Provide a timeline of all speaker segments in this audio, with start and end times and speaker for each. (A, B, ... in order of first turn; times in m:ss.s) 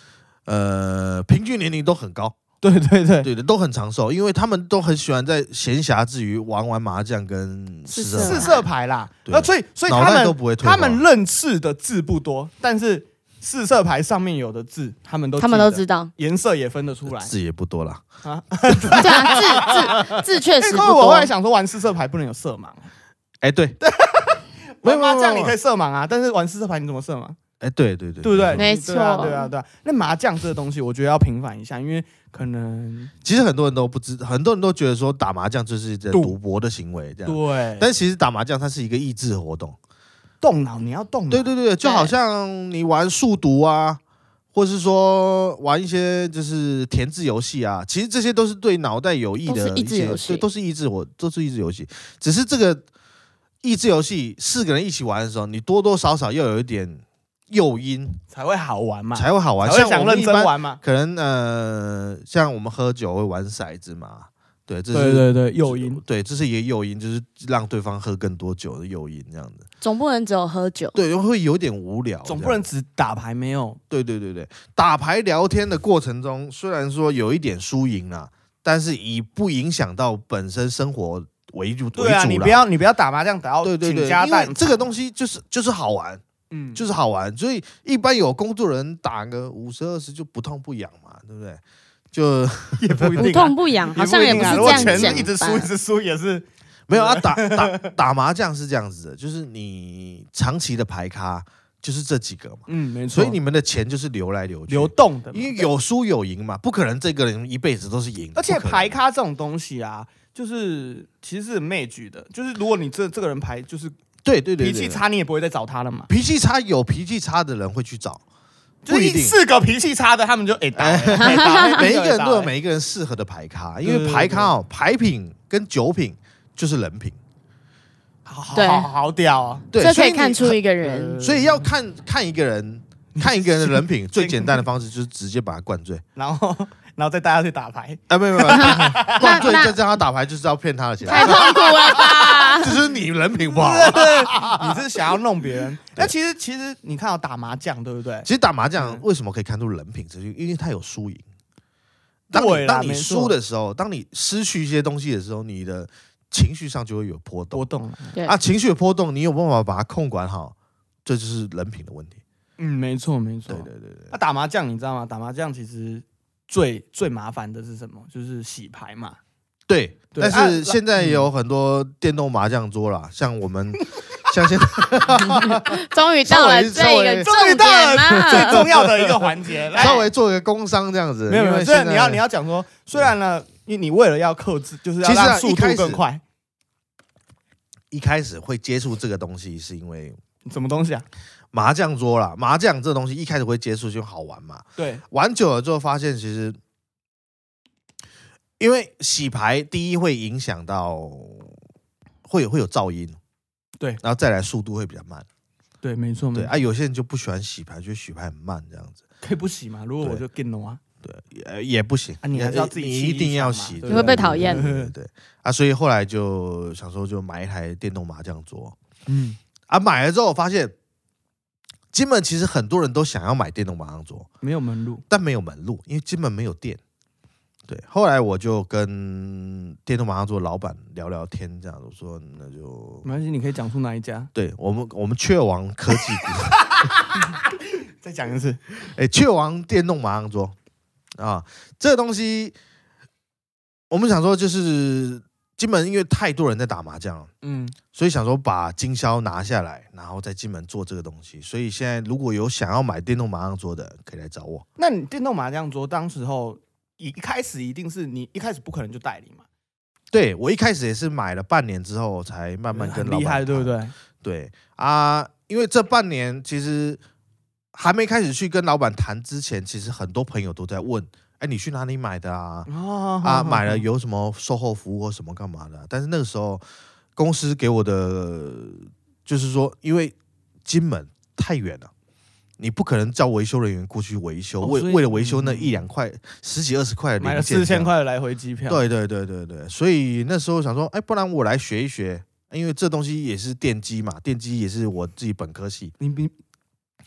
0:00.4-0:02.4 A
0:02.6-0:03.3 B
0:03.2-0:08.6 A
0:07.9-0:08.6 C
0:08.2-0:17.3 B
0:09.2-0:11.0 A
0:15.4-0:16.1 C
0:17.1-0:18.0 A
0:18.2-0:22.9 B
0:18.7-0:20.2 A
0:19.0-0:21.3 C
0:23.4-0:23.8 A
0:23.8-0:27.4 B
0:24.8-0:25.6 A
0:27.6-0:28.6 A
0:28.2-0:33.1 B
0:28.6-0:29.5 C
0:33.2-0:39.8 A
0:37.2-0:37.9 B
0:40.4-0:41.5 B
0:41.3-0:44.0 A
0:41.8-0:42.1 C
0:44.5-0:52.8 A
0:49.4-0:50.4 C
0:53.6-0:58.2 A
0:58.3-1:00.8 B
0:59.1-1:09.6 A
1:04.9-1:06.0 B
1:09.8-1:11.0 C
1:10.9-1:12.6 A
1:12.2-1:13.8 B
1:13.9-1:22.6 A
1:21.9-1:24.9 B
1:23.6-1:26.2 A
1:26.5-1:26.8 B
1:26.7-1:31.6 A
1:32.1-1:33.3 A
1:32.8-1:37.9 B
1:33.2-1:35.7 C
1:34.2-1:35.3 A
1:36.9-1:48.9 A
1:42.7-1:43.4 B
1:44.7-1:45.7 B
1:48.3-1:53.9 B
1:54.2-1:55.0 A
1:54.6-1:56.1 B
1:56.1-1:58.2 A
1:58.8-2:02.5 B
1:58.9-1:59.4 A
2:00.7-2:07.2 A
2:01.2-2:01.8 C
2:03.8-2:04.5 B
2:08.3-2:09.7 B
2:08.5-2:08.9 C
2:09.7-2:10.6 A
2:09.8-2:11.2 C
2:10.8-2:11.7 B
2:11.2-2:16.0 A
2:13.1-2:14.6 B
2:16.2-2:19.5 B
2:18.1-2:24.8 A
2:18.6-2:19.8 C
2:21.1-2:22.8 C
2:21.1-2:22.4 B
2:23.5-2:29.0 B
2:28.2-2:31.2 A
2:32.3-2:37.6 A
2:32.3-2:33.3 B
2:37.5-2:38.2 B
2:38.2-2:40.5 A
2:41.0-2:42.2 A
2:42.6-2:49.2 B
2:43.5-2:44.1 A
2:49.7-3:02.2 A
2:50.1-2:51.3 B
2:55.3-2:58.6 C
2:57.2-3:00.1 B
3:01.3-3:06.2 B
3:05.0-3:06.0 A
3:07.9-3:10.2 A
3:10.4-3:11.0 B
3:11.5-3:16.6 A
3:14.8-3:15.0 B
3:18.6-3:21.5 A
3:22.2-3:23.2 A
3:24.0-3:25.2 A
3:25.8-3:26.6 B
3:26.3-3:29.0 A
3:29.2-3:30.8 B
3:31.0-3:38.7 A
3:32.2-3:34.9 B
3:33.8-3:34.6 C
3:39.1-3:39.4 B
3:39.7-3:40.7 A
3:41.9-3:44.3 A
3:44.4-3:45.0 B
3:45.1-3:46.8 A
3:47.7-3:53.0 A
3:53.0-3:54.3 B
3:54.3-3:56.8 A
3:56.7-3:57.5 B
3:58.0-3:58.6 B
3:58.9-4:00.5 A
4:01.2-4:02.5 A
4:03.9-4:07.3 A
4:07.4-4:07.8 B
4:07.9-4:14.6 A
4:14.8-4:19.4 B
4:20.1-4:27.0 A
4:22.7-4:23.9 B
4:27.7-4:32.7 A
4:32.7-4:33.8 B
4:33.2-4:36.6 A
4:37.2-4:41.9 A
4:42.6-4:47.9 A
4:44.6-4:45.8 B
4:47.2-4:48.9 B
4:48.7-4:55.9 A
4:56.0-4:56.3 B